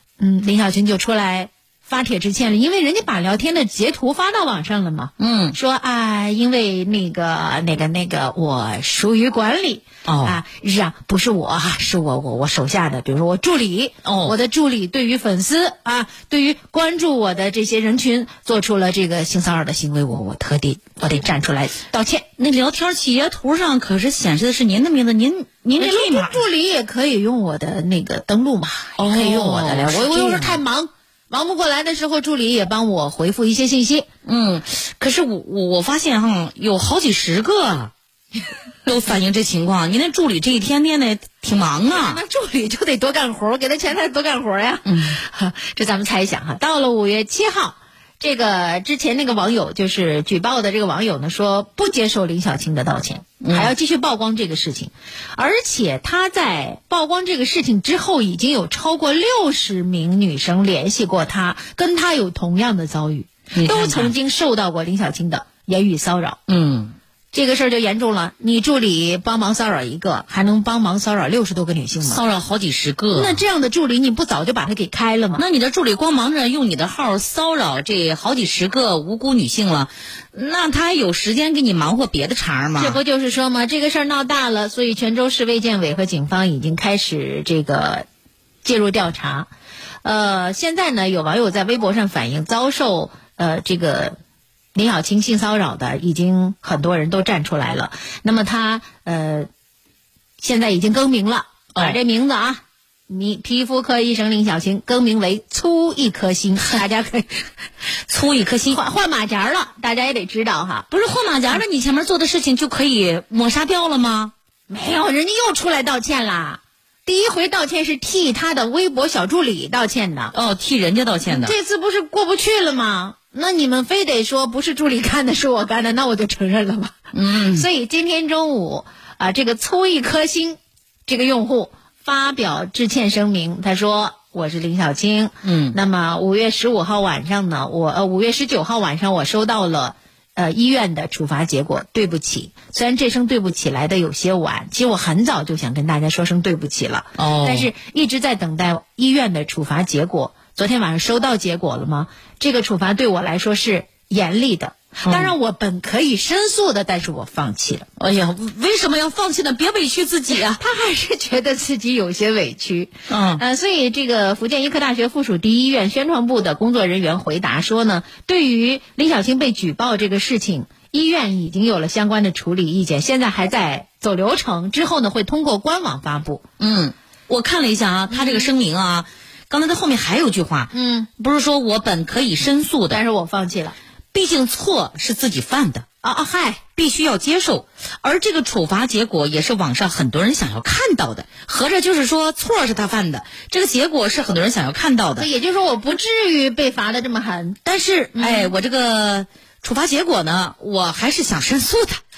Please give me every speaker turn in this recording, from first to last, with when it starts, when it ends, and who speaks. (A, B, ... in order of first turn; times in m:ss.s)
0:00.2-0:22.3 A
0:05.2-0:05.6 B
0:10.0-0:10.4 B
0:14.0-0:14.4 B
0:22.4-0:26.4 B
0:25.8-0:34.1 A
0:29.0-0:30.6 B
0:34.2-0:37.9 B
0:38.8-0:42.2 B
0:41.9-1:06.4 A
0:44.9-0:45.2 B
0:53.4-0:53.7 B
1:03.5-1:04.1 B
1:06.5-1:07.0 B
1:07.3-1:12.2 A
1:12.0-1:13.4 B
1:13.1-1:15.4 A
1:15.4-1:23.0 B
1:22.8-1:28.1 A
1:28.6-1:29.5 A
1:30.0-1:34.2 A
1:34.7-1:39.5 A
1:40.4-1:47.4 A
1:48.1-1:48.8 B
1:48.7-1:50.9 A
1:50.9-1:54.3 B
1:54.7-2:00.3 A
2:00.3-2:01.6 B
2:01.3-2:07.0 A
2:07.1-2:07.7 B
2:07.5-2:37.9 A
2:15.4-2:15.8 B
2:27.2-2:27.7 B
2:35.0-2:35.3 B
2:38.0-2:40.6 B
2:40.5-2:56.4 A
2:43.1-2:43.4 B
2:56.6-3:03.0 B
2:58.1-2:58.5 A
3:00.7-3:01.1 A
3:02.9-3:03.8 A
3:04.1-3:05.9 B
3:06.0-3:06.6 A
3:06.8-3:15.3 B
3:15.2-3:17.6 A
3:17.6-3:22.0 B
3:18.2-3:18.5 A